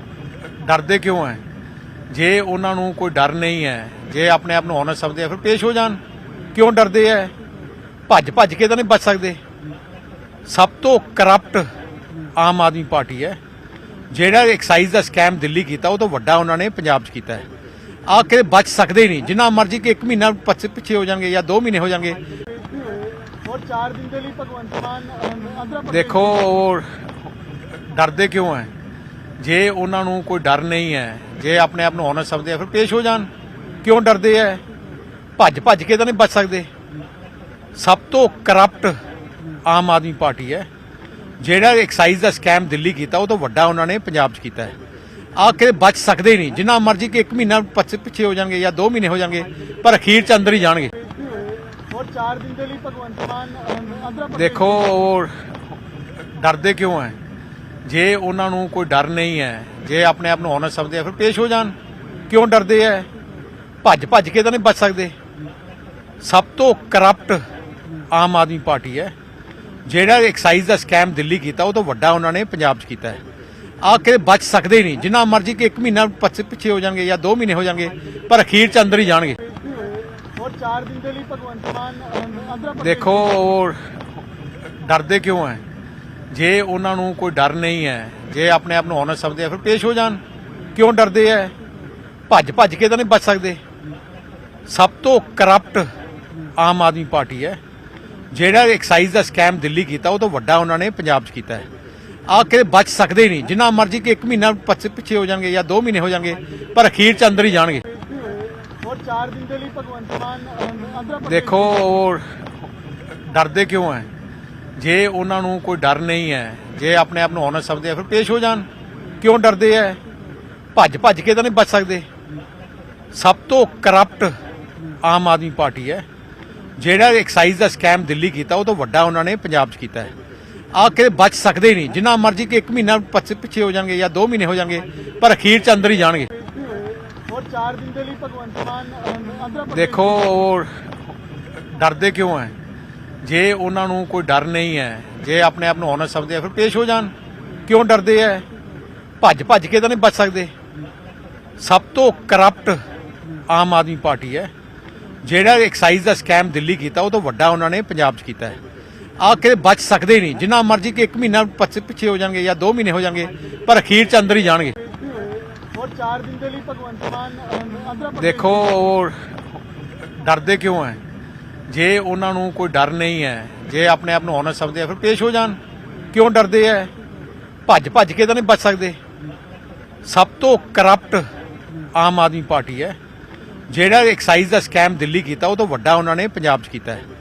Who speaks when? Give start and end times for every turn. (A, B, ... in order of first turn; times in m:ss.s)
0:00.6-0:01.4 A
0:02.1-0:06.0 A
0:06.5-0:07.3 A
0:08.1-0:09.4 A
0:10.4-0:11.7 A
0:12.4-0:13.4 A
0:14.1-0:17.5 A
0:18.1-0:22.2 A
0:22.8-0:26.3 B
0:25.9-0:26.9 A
0:27.9-0:28.7 A
0:29.4-0:33.3 A
0:33.8-0:34.6 A
0:35.4-0:36.7 A
0:37.8-0:39.0 A
0:39.6-0:40.7 A
0:41.4-0:44.8 A
0:45.4-0:51.0 A
0:51.8-0:54.6 B
0:54.3-0:55.3 A
0:56.3-0:57.2 A
0:57.8-1:01.8 A
1:02.3-1:03.1 A
1:03.8-1:05.1 A
1:06.2-1:07.4 A
1:08.1-1:09.1 A
1:09.8-1:13.2 A
1:13.8-1:19.4 A
1:20.3-1:22.8 B
1:22.7-1:23.8 A
1:24.8-1:25.6 A
1:26.3-1:30.2 A
1:30.7-1:31.5 A
1:32.3-1:33.6 A
1:34.7-1:35.9 A
1:36.6-1:37.6 A
1:38.3-1:41.7 A
1:42.3-1:47.9 A
1:48.7-1:51.3 B
1:51.2-1:52.2 A
1:53.2-1:54.1 A
1:54.8-1:58.7 A
1:59.2-2:00.0 A
2:00.7-2:02.0 A
2:03.1-2:04.3 A
2:05.0-2:06.0 A
2:06.8-2:10.1 A
2:10.7-2:16.3 A
2:17.2-2:19.8 B
2:19.7-2:20.7 A
2:21.7-2:22.5 A
2:23.2-2:27.1 A
2:27.7-2:28.4 A
2:29.2-2:30.5 A
2:31.6-2:32.8 A
2:33.5-2:34.5 A
2:35.2-2:38.6 A
2:39.2-2:44.8 A
2:45.7-2:48.6 B
2:48.2-2:49.2 A
2:50.2-2:51.0 A
2:51.7-2:55.6 A
2:56.1-2:56.9 A
2:57.7-2:59.0 A
3:00.0-3:01.2 A
3:02.0-3:03.0 A
3:03.7-3:07.0 A